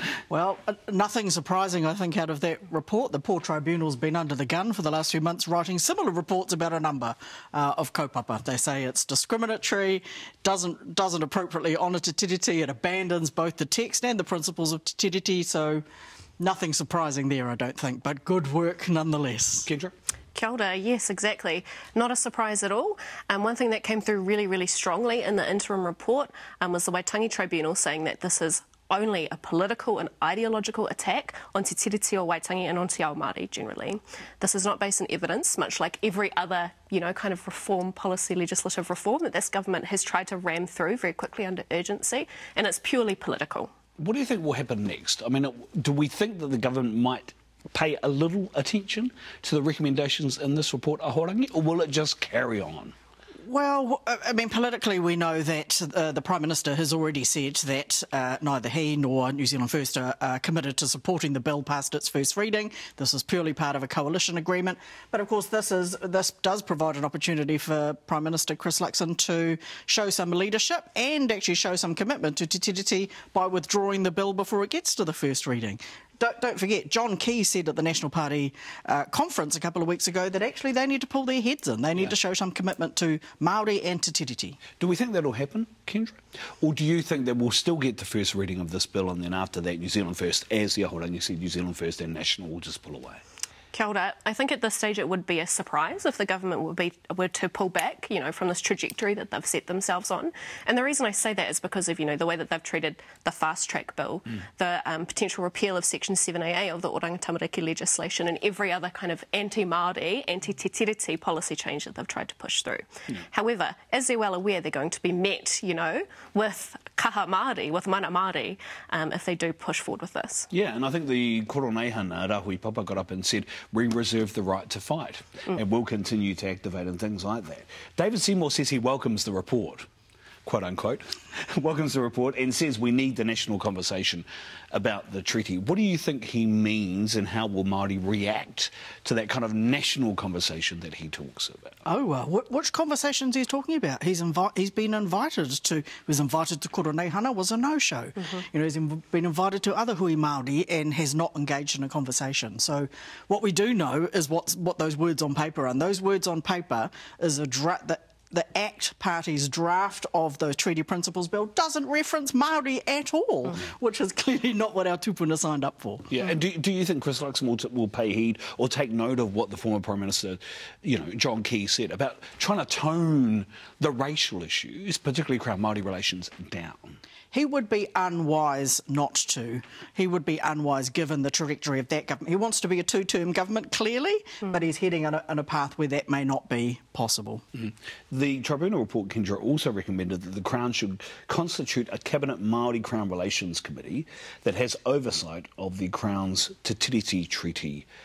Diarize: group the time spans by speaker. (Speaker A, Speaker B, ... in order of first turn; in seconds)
Speaker A: 0.3-15.8, 16.4-19.7, 53.4-84.6, 141.8-166.1, 177.3-187.4
Speaker B: 19.6-19.9, 44.0-52.9, 84.8-93.2, 120.5-129.9, 130.4-141.8, 166.1-177.0, 187.6-197.8
Speaker C: 20.3-43.7, 93.7-120.5